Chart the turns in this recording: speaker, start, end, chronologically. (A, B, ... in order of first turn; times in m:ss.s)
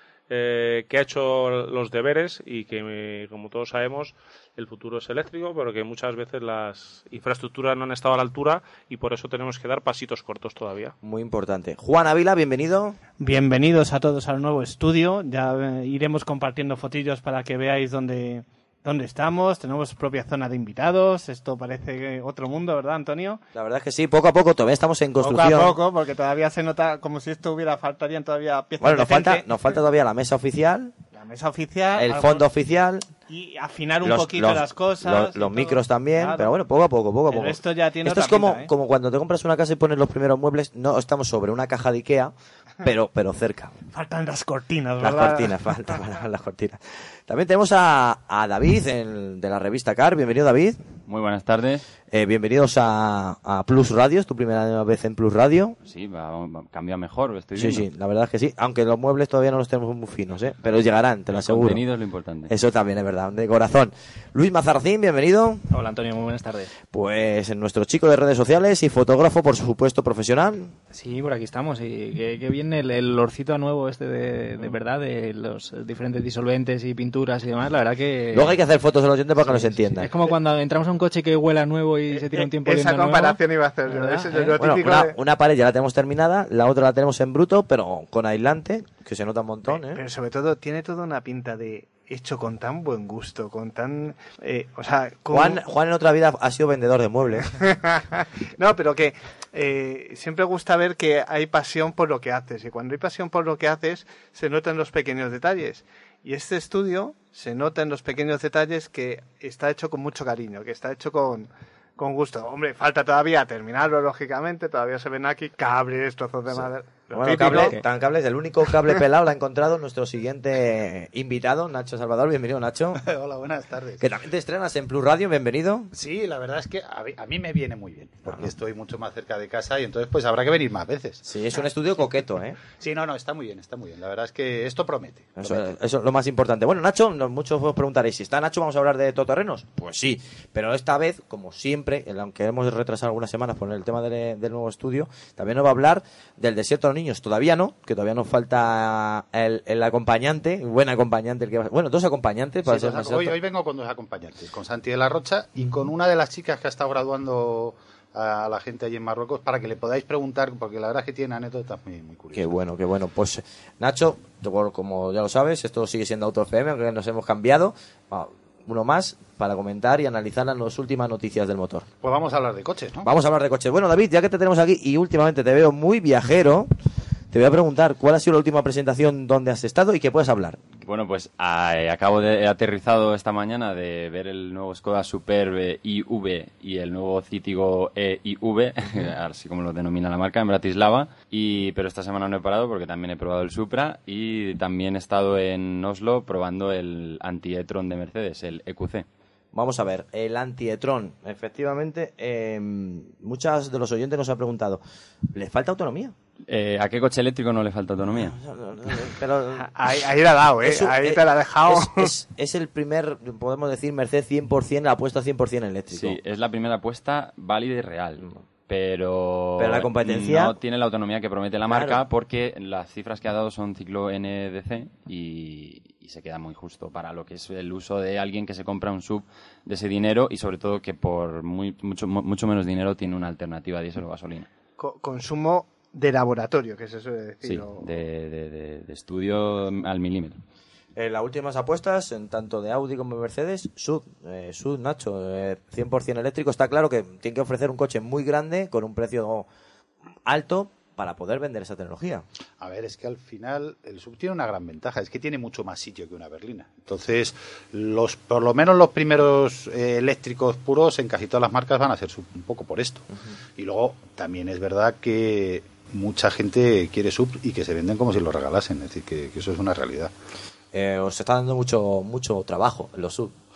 0:00.3-0:10.9 A
0:11.0-0:13.0 B
0:13.2-0:23.4 C
0:23.5-0:25.8 B
0:25.2-0:29.4 C
0:28.8-0:30.9 B
0:31.1-0:32.4 C
0:32.0-0:33.1 B
0:33.3-0:36.5 C
0:34.0-0:43.8 B
0:37.3-0:38.7 C
0:43.9-0:45.5 C
0:45.0-0:50.8 B
0:51.0-0:51.8 D
0:52.1-0:55.8 B
0:55.8-0:57.8 D
0:57.6-1:01.8 B
1:01.3-1:02.5 D
1:02.5-1:05.7 B
1:05.7-1:06.7 E
1:06.9-1:10.8 B
1:10.9-1:18.6 E
1:18.3-1:20.1 B
1:19.4-1:24.6 E
1:22.1-1:25.1 C
1:24.6-1:30.0 B
1:29.9-1:35.6 C
1:35.3-1:37.5 B
1:37.6-1:57.8 C
1:56.5-2:03.0 B
1:57.4-1:57.8 E
2:03.0-2:04.1 F
2:04.0-2:05.9 B
2:05.9-2:11.2 F
2:11.2-2:12.6 B
2:12.7-2:15.7 F
2:15.4-2:33.4 B
2:32.6-2:42.5 F
2:42.3-2:51.9 B
2:52.0-2:53.1 F
2:53.0-2:56.7 B
2:57.3-3:00.6 B
3:00.8-3:19.1 D
3:19.5-3:24.8 B
3:25.3-3:26.1 B
3:26.5-3:28.4 D
3:28.1-3:29.7 B
3:29.6-3:32.1 C
3:30.6-3:36.2 B
3:35.9-3:54.5 D
3:39.6-3:40.5 B
3:41.7-3:42.0 B
3:54.8-3:57.9 C
3:57.4-4:00.4 D
4:01.0-4:09.5 B
4:10.3-4:12.2 B
4:12.6-4:30.1 F
4:30.7-4:33.3 B